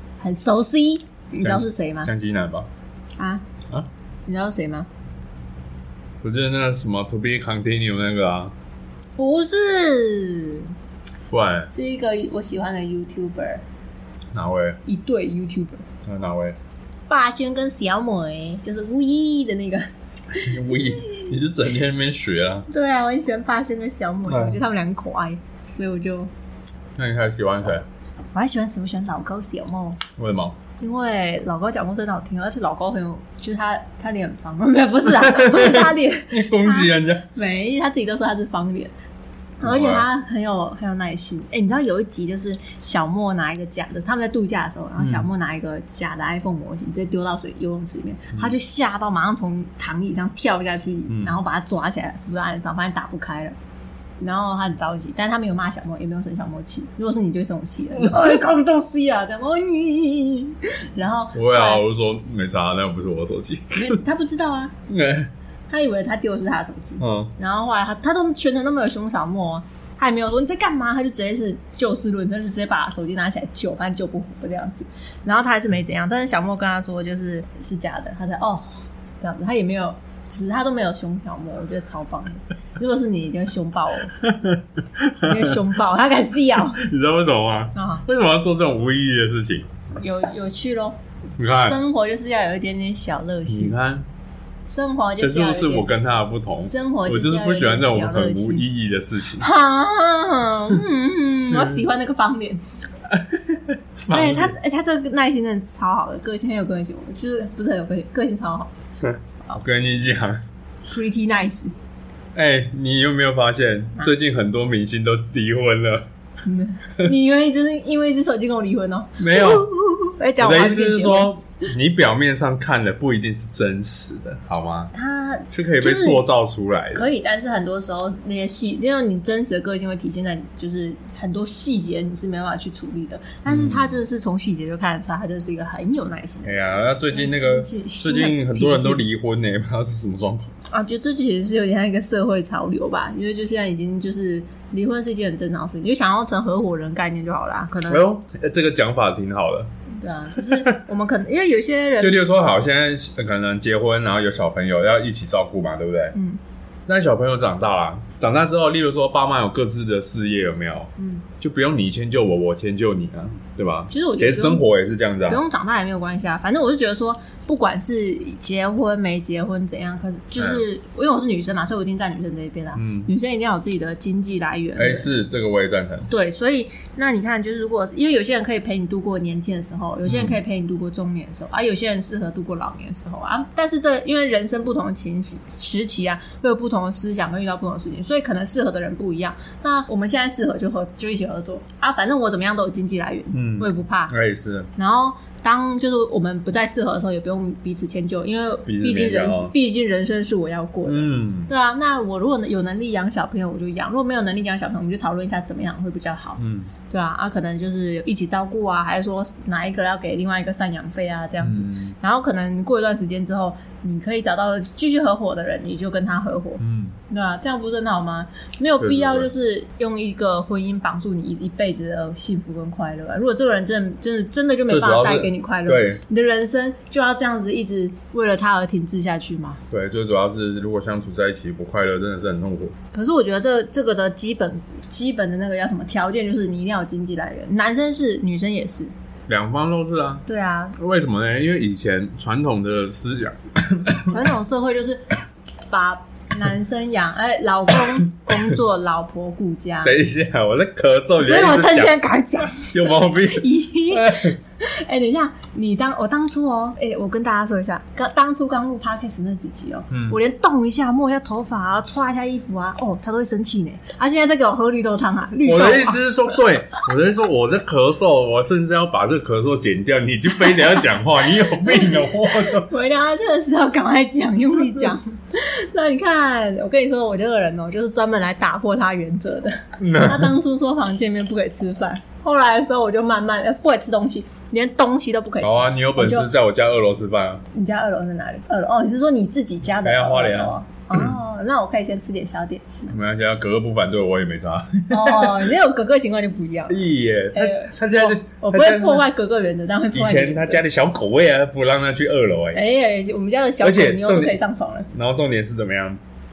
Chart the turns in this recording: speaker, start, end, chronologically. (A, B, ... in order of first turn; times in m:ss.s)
0:00.2-0:02.1 A
0:01.4-0:02.7 B
0:03.2-0:03.4 A
0:04.3-0:04.9 A
0:06.2-0:08.5 B
0:09.2-0:10.7 A
0:11.3-0:11.7 B
0:11.7-0:13.6 A
0:14.3-0:14.8 B
0:14.9-0:15.8 A
0:16.0-0:16.6 B
0:17.1-0:21.3 A
0:20.4-0:22.7 B
0:22.7-0:26.3 A
0:24.3-0:24.6 B
0:27.0-0:27.8 B
0:28.3-0:30.0 A
0:30.2-0:30.6 B
0:30.8-0:38.9 A
0:35.1-0:37.3 B
0:39.6-0:53.6 A
0:39.6-0:40.1 B
0:45.0-0:45.2 B
0:51.1-0:51.3 B
0:54.2-1:01.8 A
1:01.3-1:04.0 B
1:03.7-1:04.7 A
1:04.9-1:05.3 B
1:05.7-1:18.6 A
1:07.0-1:07.3 B
1:19.2-1:24.3 A
1:24.2-1:25.6 B
1:25.2-1:26.8 A
1:26.8-1:29.7 B
1:27.8-1:28.0 A
1:30.0-1:33.8 A
1:31.4-1:31.8 B
1:33.5-1:34.1 B
1:34.7-1:35.9 A
1:35.2-1:39.5 B
1:36.6-1:38.7 A
1:39.4-1:42.8 A
1:41.5-1:41.8 B
1:43.1-1:44.6 B
1:44.1-1:48.7 A
1:49.0-1:50.4 B
1:50.9-1:51.7 A
1:52.4-1:56.1 B
1:56.4-2:01.3 A
1:59.2-1:59.7 B
2:00.4-2:04.9 B
2:04.9-2:06.2 A
2:05.5-2:07.1 B
2:06.9-2:16.5 A
2:13.5-2:13.9 B
2:16.4-2:20.5 B
2:17.1-2:19.0 A
2:20.7-2:28.0 A
2:27.9-2:29.7 B
2:30.0-2:32.3 A
2:30.4-2:30.8 B
2:32.0-2:36.2 B
2:36.9-2:40.9 B
2:41.0-2:41.2 A
2:41.4-2:45.4 B
2:43.9-2:44.7 A
2:45.3-2:55.1 A
2:52.8-2:53.1 B
2:54.8-2:56.1 B
2:56.1-3:14.1 A
3:00.1-3:00.4 B
3:13.3-3:14.7 B
3:14.8-3:49.6 A
3:18.7-3:19.5 B
3:20.8-3:21.5 B
3:26.4-3:26.7 B
3:31.4-3:31.9 B
3:36.6-3:37.0 B
3:38.8-3:39.3 B
3:44.7-3:46.0 B
3:49.7-3:52.8 B
3:52.9-3:58.9 A
3:59.3-4:00.2 B
4:00.3-4:00.8 A
4:00.8-4:04.2 B
4:04.0-4:05.1 A
4:05.7-4:09.9 A
4:09.8-4:12.0 B
4:11.2-4:26.0 A
4:12.6-4:14.4 B
4:19.9-4:20.2 B
4:25.4-4:32.7 B
4:30.4-4:46.3 A
4:39.8-4:40.4 B
4:45.4-4:47.4 B
4:47.5-4:53.0 A
4:49.8-4:51.2 B
4:52.9-4:55.5 B
4:54.9-4:56.8 A
4:56.7-4:59.1 B
4:57.3-5:00.6 A
4:59.9-5:02.6 B
5:02.5-5:04.9 A
5:03.6-5:04.4 B
5:04.9-5:06.0 B